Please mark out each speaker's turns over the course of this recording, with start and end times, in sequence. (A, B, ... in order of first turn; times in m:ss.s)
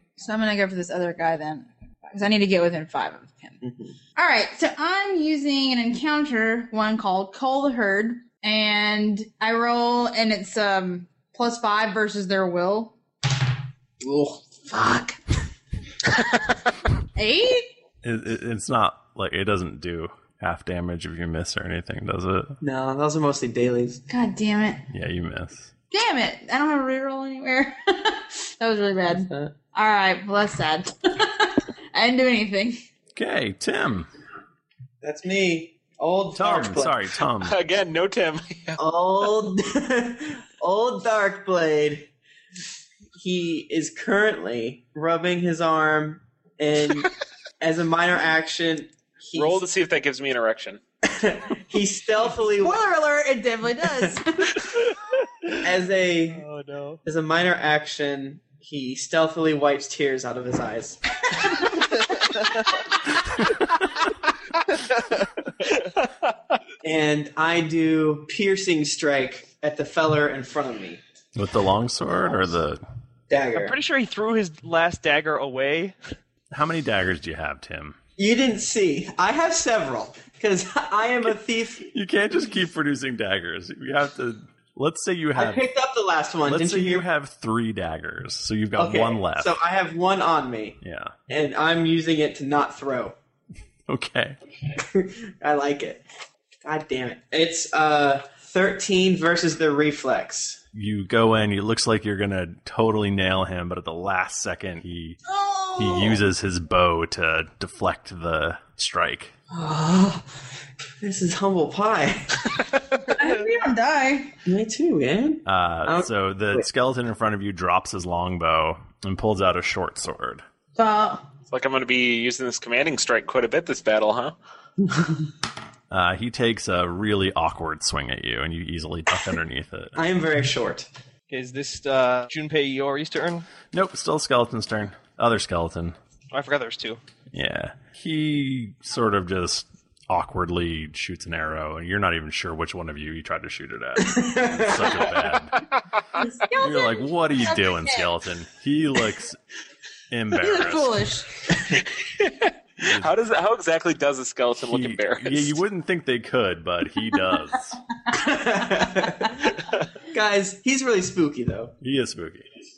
0:00.2-0:03.6 A
0:03.6-0:03.9 B
0:04.1-0:12.9 A
0:14.0-0:15.2 B
0:17.2-0:17.7 A
0:18.0-0:22.6 C
0:22.6-0:24.0 B
0:24.1-0:24.8 A
0:24.9-0:25.7 C
0:25.9-0:32.8 A
0:29.1-0:29.5 B
0:33.1-0:34.1 C
0:35.0-0:37.0 B
0:36.3-0:37.6 C
0:37.4-0:38.8 D
0:38.8-0:42.1 B
0:43.2-0:49.6 B
0:49.3-0:50.8 D
0:51.0-0:52.8 B
0:52.6-0:54.6 A
0:55.6-0:56.4 B
0:56.3-0:57.0 E
0:57.0-1:01.8 B
1:02.2-1:02.7 E
1:04.8-1:05.3 E
1:06.0-1:06.5 D
1:06.8-1:11.0 B
1:11.3-1:12.8 C
1:13.3-1:13.8 B
1:13.5-1:16.0 E
1:16.5-1:18.0 C
1:18.2-1:21.9 B
1:21.9-1:25.6 C
1:25.4-1:27.1 B
1:26.4-1:29.5 C
1:28.8-1:33.2 B
1:30.8-1:31.1 C
1:33.9-1:34.4 C
1:34.7-1:36.0 B
1:36.6-1:40.6 B
1:40.7-1:45.2 C
1:45.2-1:46.2 A
1:45.8-1:49.3 C
1:49.5-1:50.3 B
1:51.0-1:52.6 B
1:53.1-1:54.3 A
1:54.4-1:56.7 B
1:55.4-2:00.4 C
2:00.8-2:01.2 A
2:01.5-2:04.3 D
2:04.8-2:05.2 B
2:05.9-2:10.0 C
2:10.0-2:10.9 B
2:11.3-2:13.4 E
2:13.7-2:16.0 C
2:16.3-2:17.0 E
2:17.3-2:25.6 C
2:24.0-2:25.1 B
2:26.2-2:28.1 A
2:26.6-2:29.4 C
2:30.1-2:31.0 C
2:30.4-2:31.2 A
2:32.2-2:35.6 D
2:32.8-2:33.1 C
2:34.6-2:37.8 C
2:38.1-2:39.5 B
2:40.1-2:41.7 B
2:41.8-2:42.4 C